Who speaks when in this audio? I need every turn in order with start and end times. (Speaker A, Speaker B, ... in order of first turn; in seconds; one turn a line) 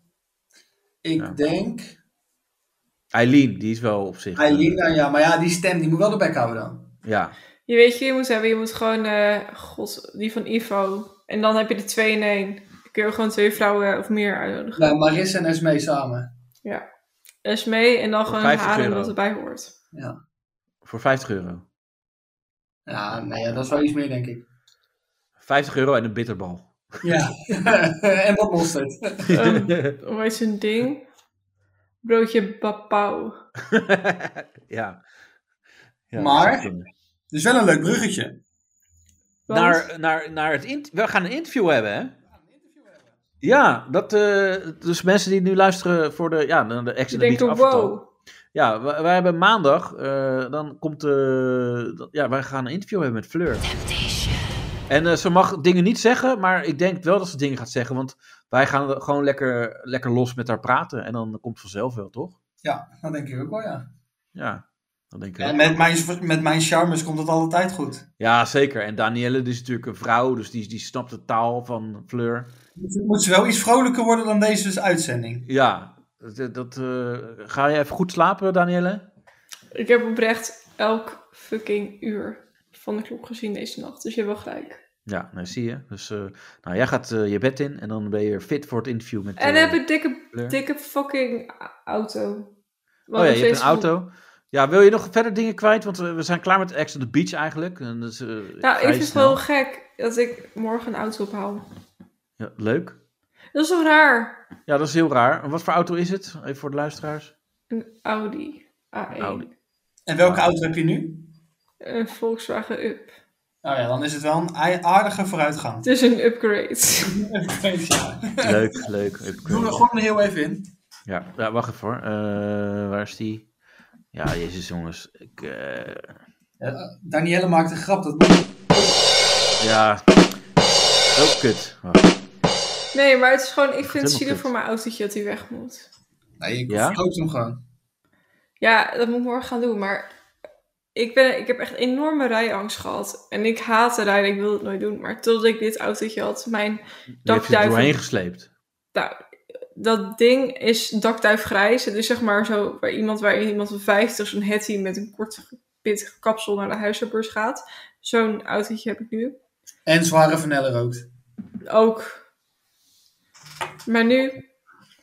Speaker A: 1.0-2.0
Speaker B: 3.1-4.8
Speaker A: 4.4-6.8
Speaker B: 7.0-7.3
Speaker C: 7.7-14.9
Speaker A: 14.8-16.3
Speaker C: 17.4-19.7
Speaker B: 18.3-19.1
Speaker B: 20.9-21.6
Speaker A: 22.9-24.4
Speaker B: 25.4-26.7
Speaker A: 27.0-29.2
Speaker B: 29.3-29.9
Speaker C: 29.3-31.1
Speaker C: 32.0-33.4
Speaker B: 33.7-35.0
Speaker B: 36.1-36.9
Speaker A: 36.2-36.7
Speaker A: 37.3-38.4
Speaker C: 39.5-39.9
Speaker B: 39.5-42.1
Speaker B: 43.4-48.0
Speaker C: 47.1-48.1
Speaker B: 48.5-53.6
Speaker B: 54.9-62.4
Speaker A: 62.6-63.9
Speaker B: 64.3-65.6
Speaker A: 65.4-68.0
Speaker B: 68.2-72.5
Speaker A: 72.8-75.5
Speaker B: 75.5-79.0
Speaker C: 79.7-84.8
Speaker B: 85.1-89.8
Speaker C: 89.4-92.5
Speaker B: 90.3-90.6
Speaker C: 93.1-93.9
Speaker B: 93.2-99.4
Speaker C: 98.6-101.7
Speaker B: 102.4-103.0
Speaker C: 103.5-104.4
Speaker B: 104.7-107.3
Speaker C: 107.7-109.5
Speaker B: 109.2-109.5
Speaker A: 110.1-111.3
Speaker B: 110.2-110.5
Speaker C: 111.8-113.1
Speaker A: 113.6-115.9
Speaker C: 115.8-117.1
Speaker A: 117.1-118.7
Speaker B: 118.4-119.8
Speaker A: 119.4-120.7
Speaker B: 121.1-123.5
Speaker B: 124.1-126.1
Speaker A: 126.6-129.0
Speaker B: 129.6-130.0
Speaker B: 131.2-132.2
Speaker C: 132.9-135.9
Speaker B: 133.9-134.5
Speaker A: 136.4-137.6
Speaker B: 136.7-137.0
Speaker C: 138.6-140.1
Speaker C: 140.9-148.0
Speaker B: 147.2-148.5
Speaker C: 148.9-149.2
Speaker C: 149.8-159.4
Speaker A: 159.9-161.1
Speaker C: 161.7-162.2
Speaker C: 163.9-164.4